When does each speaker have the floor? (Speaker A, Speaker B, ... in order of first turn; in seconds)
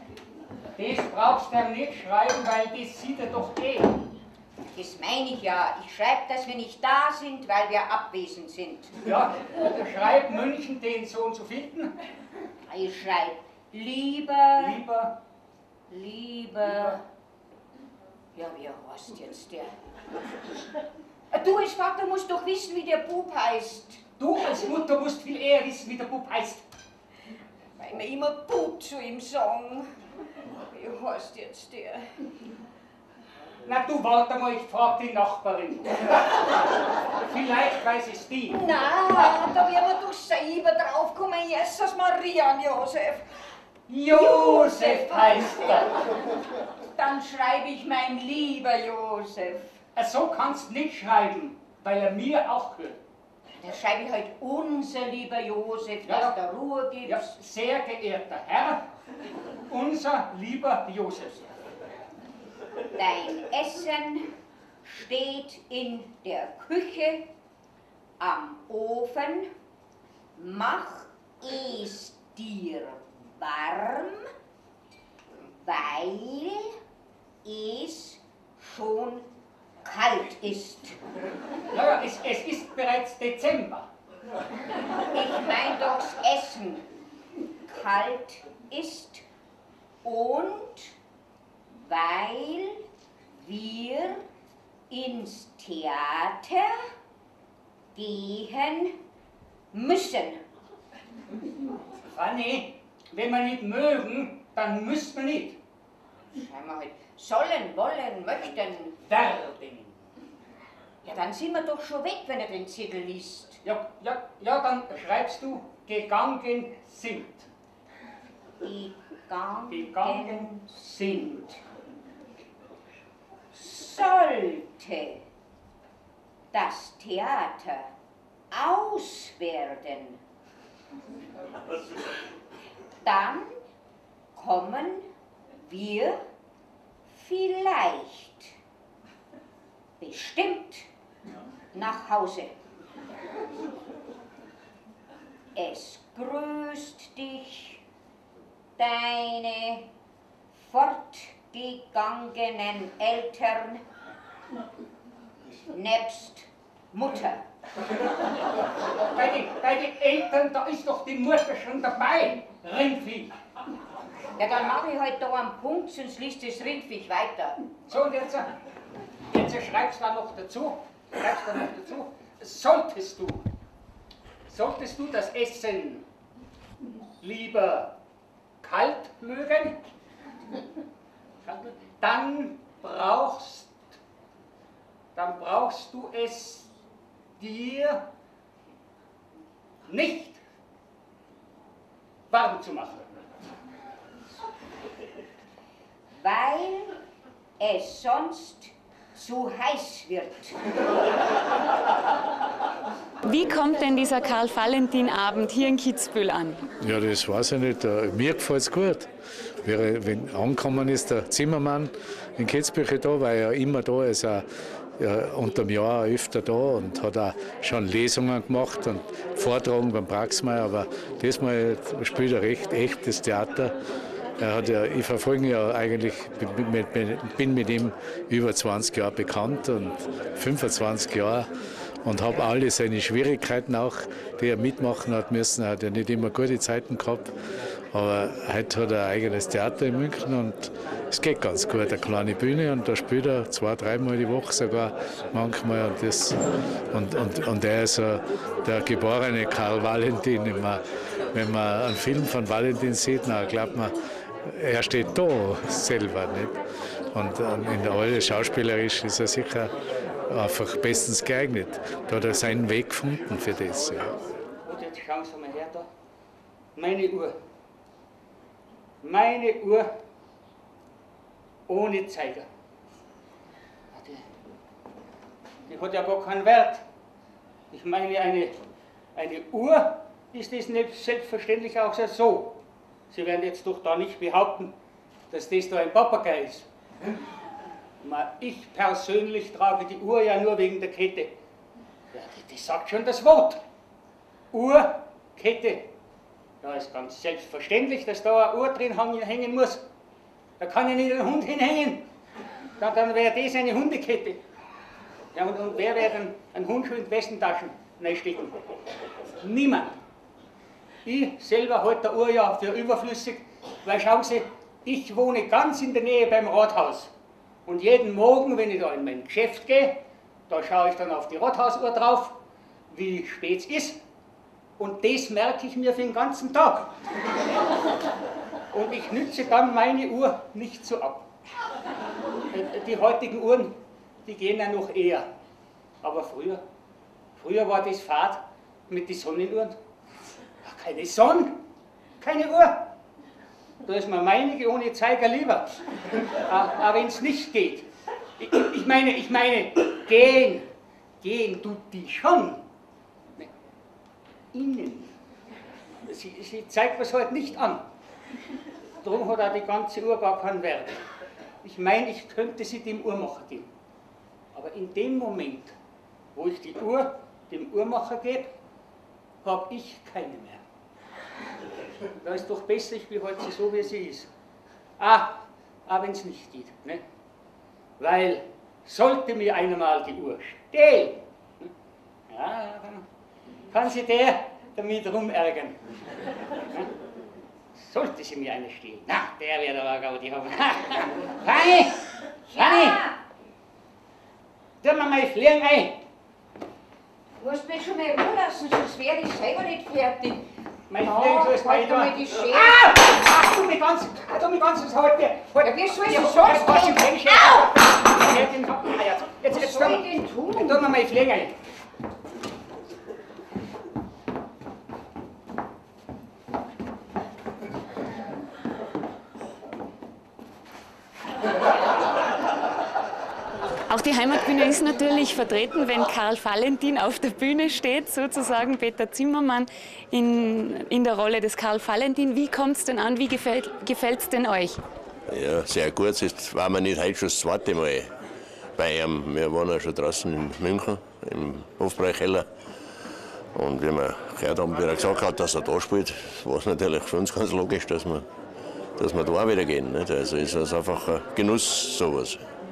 Speaker A: 0.8-4.0, 9.0-11.9, 14.6-15.1, 24.2-26.6, 33.6-36.5, 37.2-38.6, 43.9-46.0, 50.0-53.0, 56.1-56.3, 57.0-58.8, 59.7-61.5, 81.7-83.9, 102.1-105.6, 109.0-110.0, 113.6-117.5, 119.7-121.4, 159.0-163.3, 167.9-168.5, 169.3-173.4, 174.5-176.0, 177.2-177.9, 178.6-179.8, 181.4-183.9, 185.1-186.7, 187.4-188.0, 189.9-190.4, 192.3-193.2, 264.6-265.9, 266.8-267.4, 269.0-269.9, 271.7-272.5, 273.9-274.2, 275.7-276.8, 277.7-278.6, 279.1-282.6, 283.1-284.7, 285.3-286.6, 288.0-291.3, 292.1-293.6, 294.5-295.9, 296.6-299.8, 300.6-302.0, 302.8-304.4, 305.3-308.6, 309.4-310.0, 311.0-317.1, 317.6-322.3, 322.9-324.0, 324.8-326.9, 328.7-331.3, 332.5-335.3, 336.0-336.6, 337.4-339.8, 340.6-341.6, 342.2-342.9, 343.9-345.8, 346.3-347.9, 348.4-350.7, 351.2-352.6, 354.5-355.1, 356.1-357.8, 359.0-361.0, 361.6-363.7, 364.5-365.7, 366.3-368.5, 369.4-370.6, 372.2-374.3, 375.0-377.0, 378.0-381.7, 382.3-383.1, 383.7-385.8, 386.6-386.9, 387.8-392.0, 392.5-393.0, 394.8-396.0, 400.9-411.5
Speaker B: 4.6-8.9, 12.7-14.8, 15.9-17.0, 18.3-19.7, 21.3-24.0, 27.8-29.9, 30.7-32.1, 38.5-43.2, 44.1-45.9, 46.9-49.7, 53.6-57.3, 62.9-64.3, 64.8-67.3, 68.2-69.5, 70.3-74.3, 75.5-76.8, 77.4-79.3, 79.8-81.0, 85.1-86.8, 87.7-89.2, 90.0-90.9, 91.7-92.8, 93.4-94.2, 94.9-96.9, 97.9-99.0, 99.7-100.4, 106.3-109.0, 111.0-113.6, 118.6-121.4, 123.5-125.2, 126.5-127.9, 128.5-130.2, 133.0-133.5, 134.3-135.1, 135.6-136.2, 137.1-138.5, 140.0-140.9, 141.7-142.6, 145.5-147.8, 148.8-149.9, 150.5-153.8, 155.7-157.4, 164.4-167.6, 196.2-197.0, 197.6-200.6, 392.5-393.1, 397.4-402.8, 405.6-407.8, 409.5-410.9
Speaker C: 203.2-206.7, 423.9-434.8
Speaker D: 206.8-209.1, 209.6-214.4, 215.0-223.7, 224.4-231.5, 232.0-237.3, 237.9-246.4, 246.9-250.8, 251.3-256.6, 257.1-259.7, 260.3-264.2
Speaker E: 435.3-438.1, 438.8-442.5, 443.5-448.3, 449.0-452.5